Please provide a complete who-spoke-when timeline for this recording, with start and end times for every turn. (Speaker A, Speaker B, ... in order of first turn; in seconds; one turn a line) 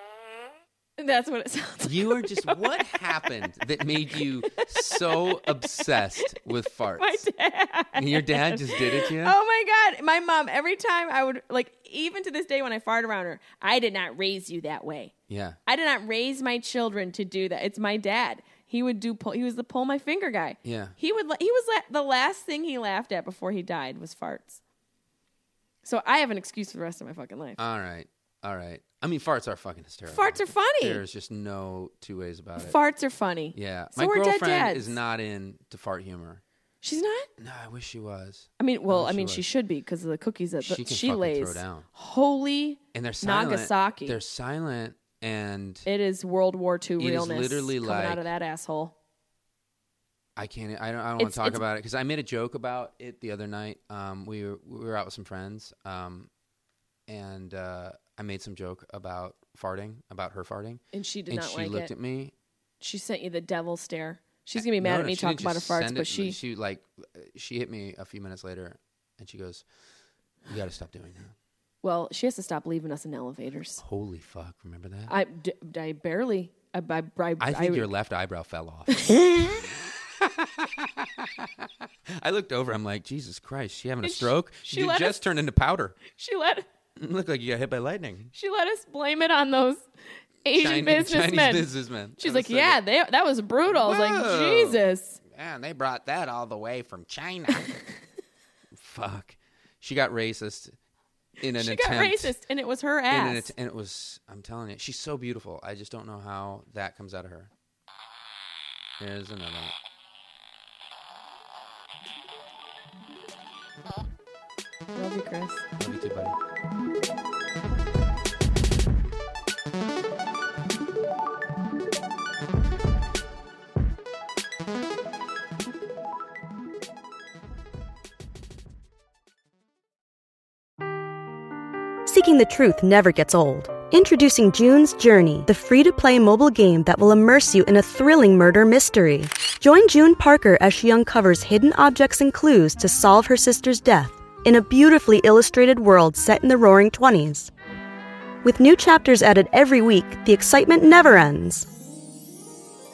Speaker A: 1.0-2.8
Speaker B: 1.8-7.2
Speaker A: 4.5-6.3
Speaker A: 7.0-15.1
Speaker B: 8.0-9.3
Speaker B: 15.3-15.6
Speaker A: 15.7-24.6
Speaker B: 20.6-20.9
Speaker A: 25.8-27.6
Speaker B: 27.6-32.8
Speaker A: 30.1-31.0
Speaker A: 32.6-35.0
Speaker B: 33.5-36.4
Speaker A: 36.8-37.3
Speaker B: 37.4-39.4
Speaker A: 38.6-44.2
Speaker B: 40.6-41.9
Speaker B: 42.9-45.9
Speaker A: 45.9-49.0
Speaker B: 47.0-48.3
Speaker B: 50.4-56.3
Speaker A: 51.2-51.6
Speaker B: 57.1-62.3
Speaker A: 60.9-61.9
Speaker A: 62.8-66.4
Speaker B: 64.5-69.7
Speaker B: 70.5-71.3
Speaker A: 71.8-73.8
Speaker B: 73.8-75.1
Speaker A: 75.1-77.9
Speaker B: 77.4-86.0
Speaker A: 79.0-79.5
Speaker A: 84.0-85.3
Speaker A: 86.1-86.7
Speaker B: 87.0-88.3
Speaker A: 88.3-89.8
Speaker A: 90.4-95.2
Speaker B: 90.5-92.8
Speaker B: 93.7-97.7
Speaker B: 98.7-100.8
Speaker B: 101.4-102.3
Speaker A: 101.6-103.5
Speaker B: 103.1-107.5
Speaker B: 109.0-109.7
Speaker A: 115.0-115.7
Speaker B: 115.8-116.4
Speaker C: 132.1-147.5
Speaker C: 148.4-151.7